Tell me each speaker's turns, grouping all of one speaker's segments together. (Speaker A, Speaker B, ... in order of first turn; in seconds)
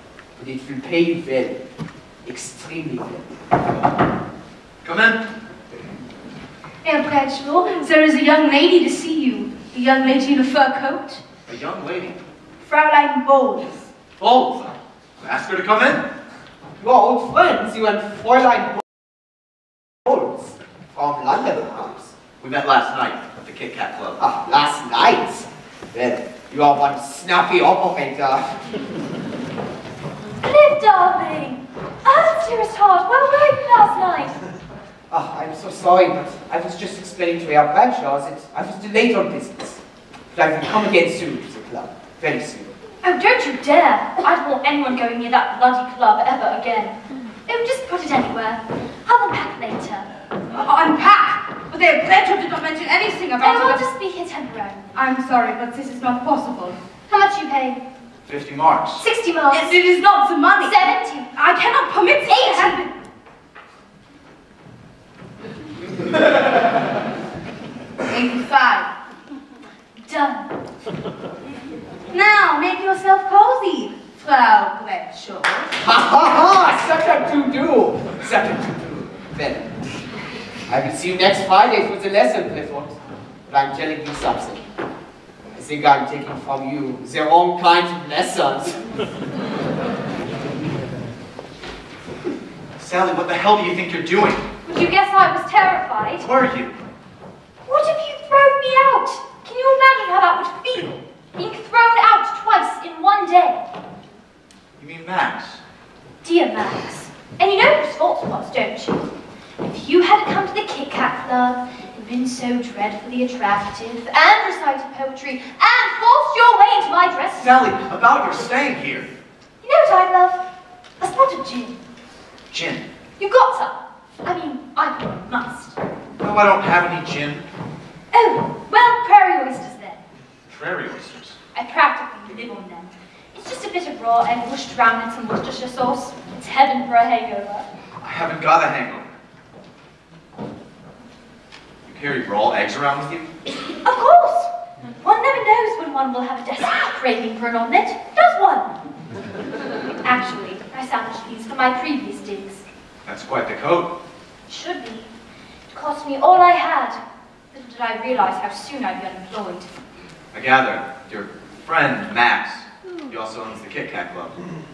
Speaker A: 0.3-1.6, 2.2-3.3, 16.8-18.8, 20.0-22.1, 24.2-28.5, 35.1-39.8, 40.3-42.7, 75.7-79.8, 80.7-83.0, 83.5-84.7, 85.5-88.8
Speaker B: 4.8-5.2, 11.4-12.2, 14.2-16.0, 22.4-24.2, 58.3-59.0, 92.8-94.4, 96.2-96.7, 104.8-105.6, 117.4-119.1, 122.5-122.8, 126.2-127.5, 130.5-131.4, 138.0-139.1, 141.8-143.3, 153.0-153.9, 160.3-164.3
Speaker C: 6.9-11.2, 12.6-13.8, 50.5-53.8, 54.9-56.8, 59.5-62.9, 68.1-68.9, 72.1-75.7
Speaker D: 30.4-34.3, 43.0-50.1, 53.4-55.0, 57.1-57.8, 59.0-59.7, 60.6-61.3, 62.2-62.8, 70.0-70.5, 94.6-96.2, 97.7-103.6, 106.2-117.6, 119.6-120.4, 121.0-121.8, 123.2-125.8, 128.1-130.0, 131.5-137.7, 143.8-148.7, 150.0-152.6, 154.5-155.1, 155.7-157.0, 157.5-159.7